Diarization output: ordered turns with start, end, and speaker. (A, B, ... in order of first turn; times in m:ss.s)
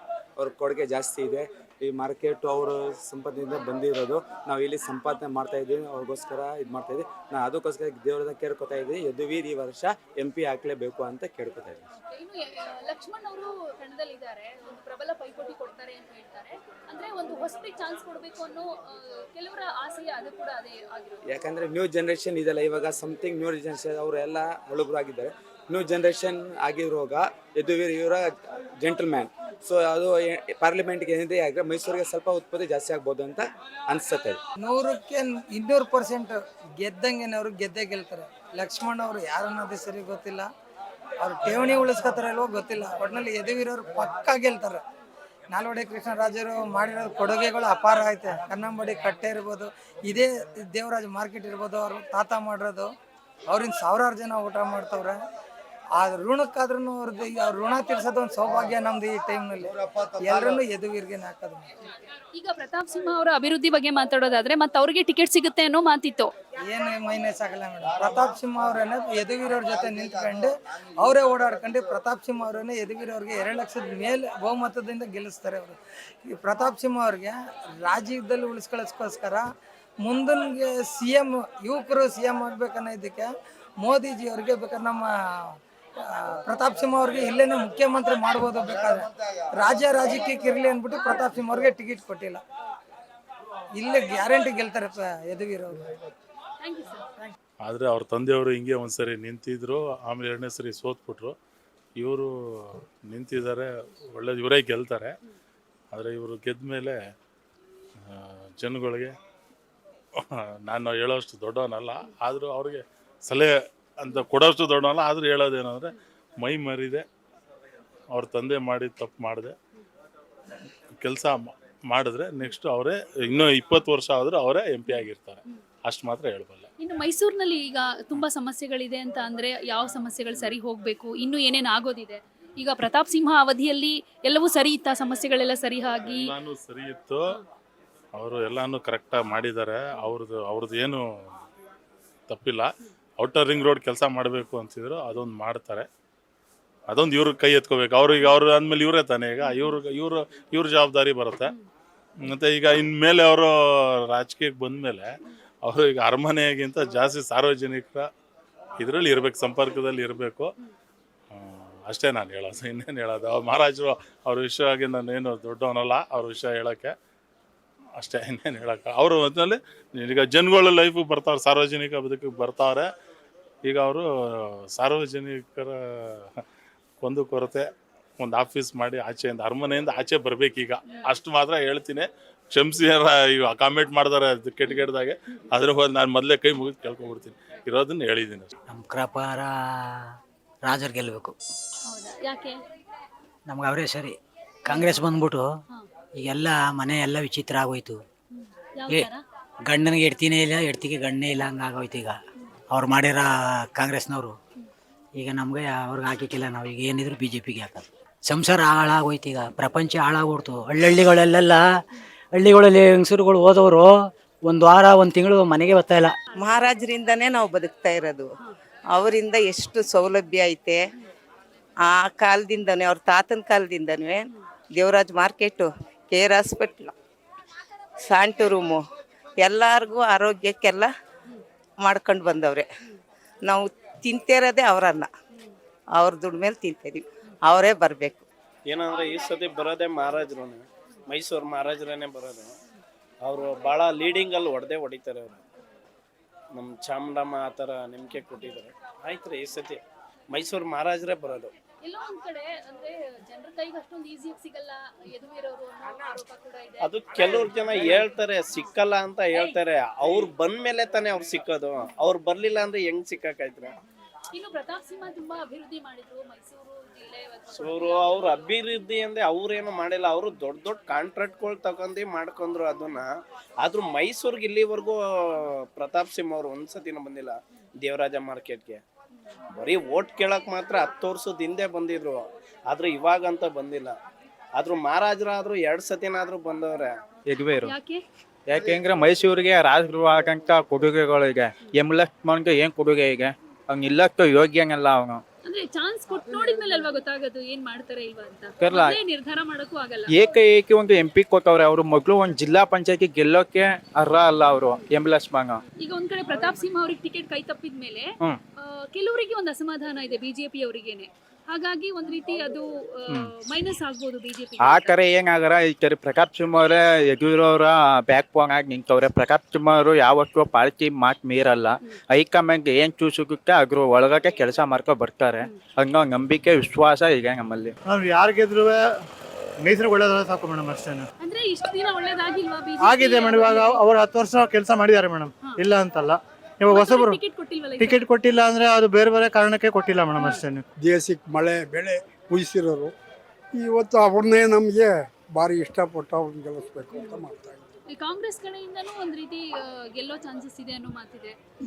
0:00.4-0:11.8 A
0:12.0-0:21.2 B
0:21.3-0:34.4 A
0:34.6-0:40.5 C
0:41.2-0:44.8 C
0:45.5-0:52.9 C
0:53.5-0:55.2 C
0:56.0-0:59.7 C
1:00.2-1:01.6 C
1:02.3-1:06.3 B
1:06.6-1:19.4 C
1:20.0-1:25.1 C
1:26.1-1:32.4 C
1:33.8-1:35.8 C
1:36.6-1:37.1 B
1:37.6-1:41.3 D
1:42.0-1:45.1 D
1:45.9-1:46.9 D
1:48.1-1:49.2 D
1:50.2-1:57.0 D
1:58.1-1:59.5 D
2:01.0-2:06.7 D
2:06.8-2:16.3 B
2:16.0-2:17.2 D
2:18.2-2:21.0 D
2:22.3-2:25.9 D
2:26.9-2:31.5 D
2:29.4-2:29.7 B
2:32.2-2:33.5 D
2:34.1-2:35.1 D
2:35.6-2:38.0 D
2:38.8-2:40.5 D
2:41.3-2:46.9 D
2:48.0-2:52.9 D
2:53.6-2:54.0 D
2:54.8-2:56.4 D
2:57.0-2:57.6 D
2:58.2-3:08.5 D
3:08.7-3:09.8 E
3:10.7-3:11.3 E
3:11.9-3:12.6 B
3:13.5-3:14.1 E
3:14.7-3:15.0 B
3:14.7-3:15.5 E
3:16.2-3:18.0 E
3:18.4-3:19.2 B
3:19.7-3:22.2 E
3:22.7-3:24.4 E
3:25.2-3:31.6 E
3:32.4-3:34.0 E
3:34.5-3:36.1 E
3:36.4-3:38.3 F
3:38.9-3:40.8 F
3:41.8-3:44.2 F
3:44.8-3:46.9 F
3:48.0-3:48.8 F
3:49.4-3:50.9 F
3:51.8-3:52.7 F
3:53.4-3:55.1 F
3:56.0-3:58.2 F
3:58.7-4:02.5 G
4:03.2-4:05.4 G
4:06.5-4:11.5 G
4:11.8-4:16.9 B
4:16.8-4:23.8 G
4:17.6-4:18.7 B
4:19.3-4:19.6 B
4:24.3-4:28.5 B
4:27.6-4:33.1 G
4:33.6-4:38.8 G
4:39.6-4:44.0 G
4:44.6-4:47.0 G
4:47.3-4:47.8 H
4:47.6-4:48.0 B
4:48.5-4:55.2 H
4:55.4-5:00.1 B
4:58.6-4:59.0 H
5:00.1-5:05.6 H
5:05.8-5:15.0 B
5:14.6-5:27.7 H
5:27.9-5:28.8 I
5:29.6-5:31.1 I
5:31.2-5:33.8 B
5:32.8-5:37.2 I
5:35.4-5:35.7 B
5:36.7-5:38.1 B
5:37.8-5:40.6 I
5:40.2-5:40.4 B
5:40.8-5:42.9 J
5:43.6-5:47.6 J
5:46.9-5:47.2 B
5:47.9-5:51.4 B